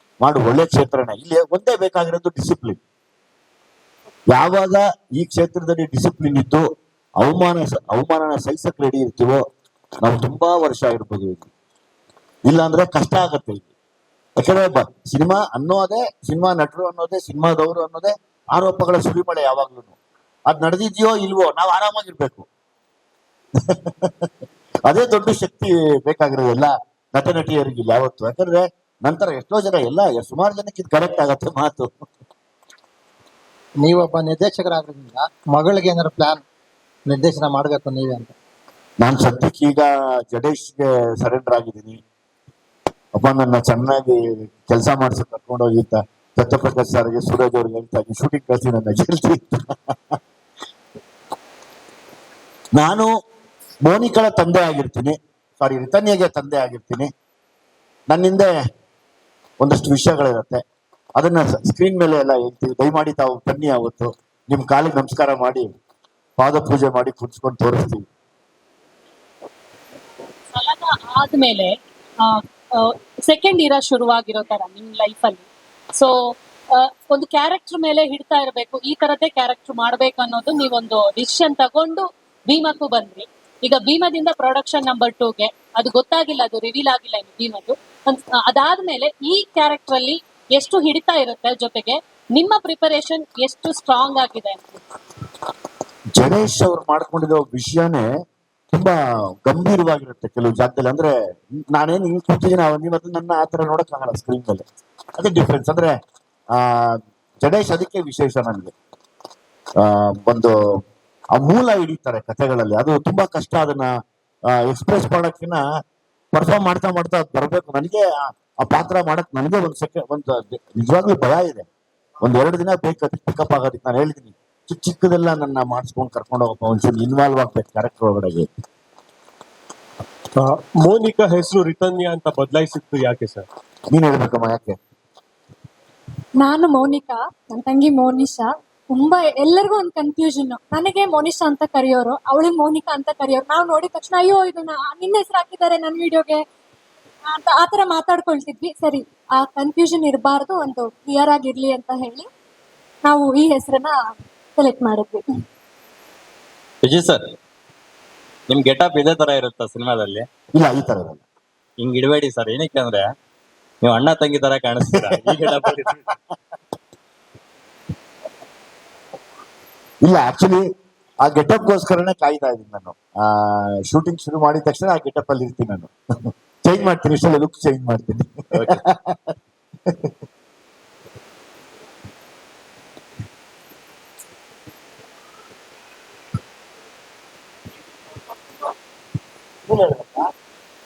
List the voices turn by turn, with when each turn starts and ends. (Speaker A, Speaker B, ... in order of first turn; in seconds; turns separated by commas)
Speaker A: 0.2-2.8, Speaker A: 4.3-6.7, Speaker A: 7.2-9.4, Speaker A: 10.0-11.5, Speaker A: 12.5-13.7, Speaker A: 14.4-19.9, Speaker A: 20.5-22.5, Speaker A: 23.7-24.2, Speaker A: 24.9-31.9, Speaker B: 33.8-36.4, Speaker B: 37.1-38.3, Speaker A: 39.0-42.0, Speaker A: 43.1-49.4, Speaker A: 52.8-53.1, Speaker A: 53.9-57.1, Speaker A: 58.1-58.5, Speaker A: 59.6-60.6, Speaker A: 61.2-65.7, Speaker A: 66.4-68.0, Speaker C: 70.5-71.7, Speaker C: 72.2-75.4, Speaker C: 77.0-94.8, Speaker A: 96.2-98.0, Speaker A: 98.7-101.1, Speaker A: 101.7-104.7, Speaker A: 105.2-105.9, Speaker A: 106.6-108.7, Speaker A: 109.8-110.5, Speaker A: 111.3-113.9, Speaker A: 114.6-115.6, Speaker A: 116.3-121.7, Speaker A: 122.2-128.5, Speaker D: 130.8-133.4, Speaker A: 133.9-134.8, Speaker E: 136.4-146.4, Speaker E: 147.3-152.3, Speaker E: 153.1-153.9, Speaker E: 154.6-155.2, Speaker F: 156.8-157.2, Speaker F: 158.5-160.3, Speaker A: 160.6-161.2, Speaker F: 161.8-163.1, Speaker F: 163.8-166.0, Speaker A: 165.0-165.8, Speaker A: 170.1-170.6, Speaker A: 171.2-175.9, Speaker A: 176.7-179.2, Speaker A: 189.7-190.2